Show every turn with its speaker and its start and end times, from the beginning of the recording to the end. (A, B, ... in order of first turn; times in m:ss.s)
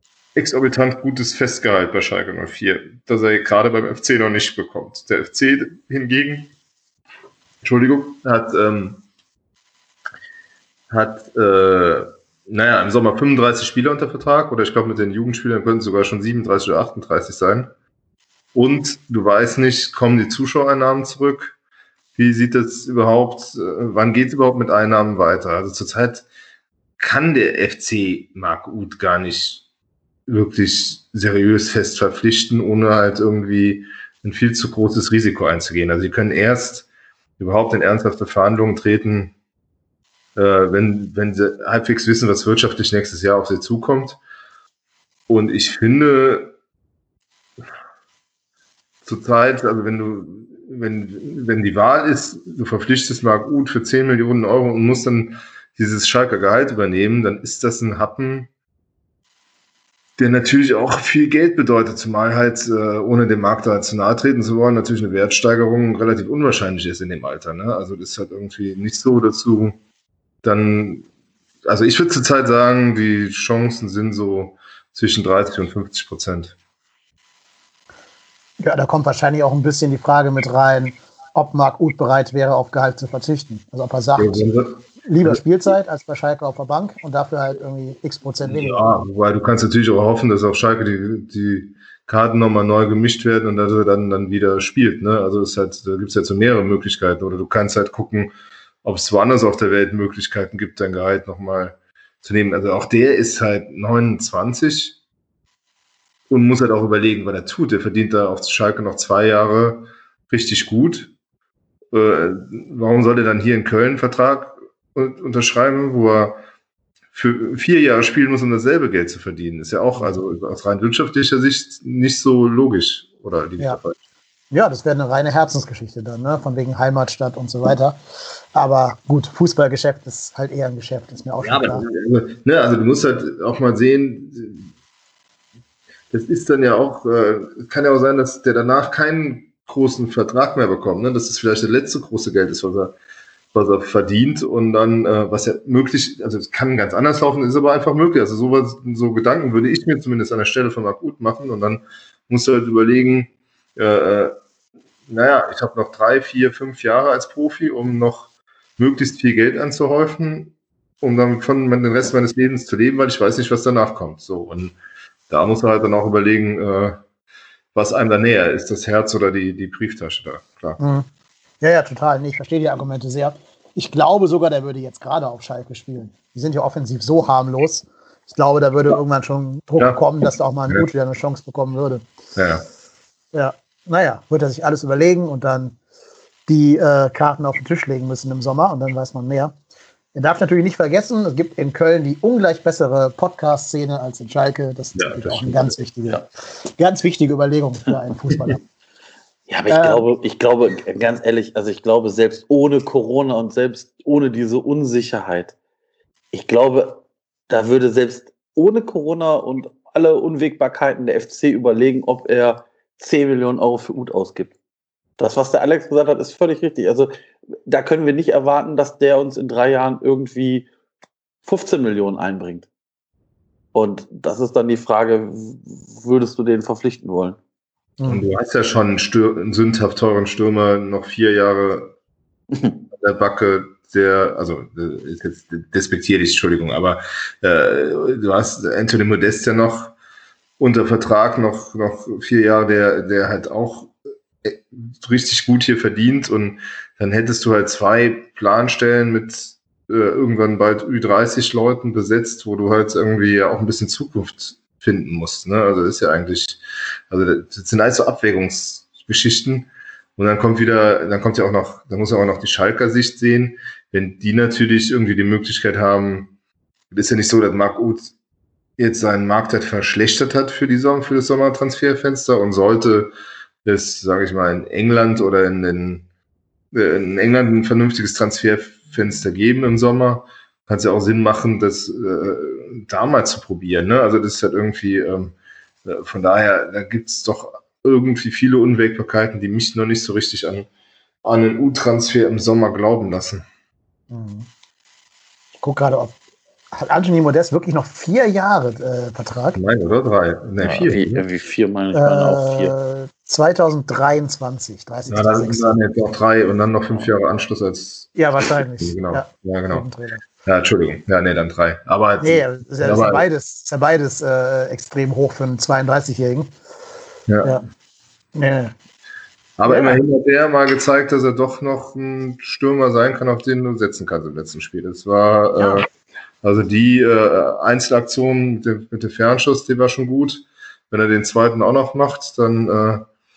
0:00.4-0:06.5 A
0:07.6-0:09.0 A
0:10.9-0:17.7 A
0:18.5-0:21.6 A
0:22.2-0:26.3 A
0:27.0-0:29.7 A
0:30.3-0:36.9 A
0:37.4-0:39.4 A
0:40.4-0:44.2 A
0:45.3-0:46.5 A
0:49.0-0:58.5 A
1:00.2-1:09.8 A
1:10.4-1:11.1 A
1:11.7-1:16.6 A
1:18.6-1:24.5 B
1:24.2-1:25.4 A
1:25.0-1:29.0 B
1:28.4-1:38.3 A
1:38.8-1:45.0 A
1:46.3-1:51.1 A
1:51.9-1:56.4 A
1:57.1-2:04.0 A
2:04.5-2:08.0 B
2:08.5-2:11.9 B
2:11.4-2:14.7 A
2:16.1-2:23.0 A
2:23.5-2:34.4 A
2:35.1-2:44.8 A
2:45.3-2:47.0 A
2:47.7-2:50.8 A
2:50.8-2:51.1 B
2:51.6-3:02.1 B
2:59.8-3:00.0 A
3:02.4-3:02.6 A
3:03.3-3:05.8 B
3:06.5-3:09.5 B
3:10.2-3:18.6 B
3:15.0-3:15.8 A
3:19.5-3:25.5 C
3:19.7-3:20.0 B
3:26.3-3:34.6 C
3:35.2-3:37.1 C
3:37.7-3:40.7 C
3:41.4-3:42.7 C
3:43.7-3:47.4 C
3:48.0-3:51.9 A
3:52.5-3:52.8 C
3:52.9-4:00.0 A
4:00.6-4:26.3 A
4:26.9-4:28.1 A
4:28.8-4:33.1 A
4:33.6-4:36.1 A
4:36.7-4:50.7 A
4:51.2-4:53.4 A
4:54.1-4:54.5 B
4:55.6-4:56.2 B
4:56.7-4:59.6 B
4:59.6-5:01.2 A
5:00.6-5:02.7 C
5:01.9-5:05.8 B
5:05.1-5:08.2 A
5:08.2-5:10.2 B
5:08.8-5:09.9 A
5:10.4-5:13.2 A
5:12.2-5:16.5 B
5:17.3-5:17.6 A
5:18.4-5:18.7 B
5:19.6-5:25.9 A
5:19.7-5:20.0 B
5:25.6-5:25.9 B
5:26.4-5:33.1 A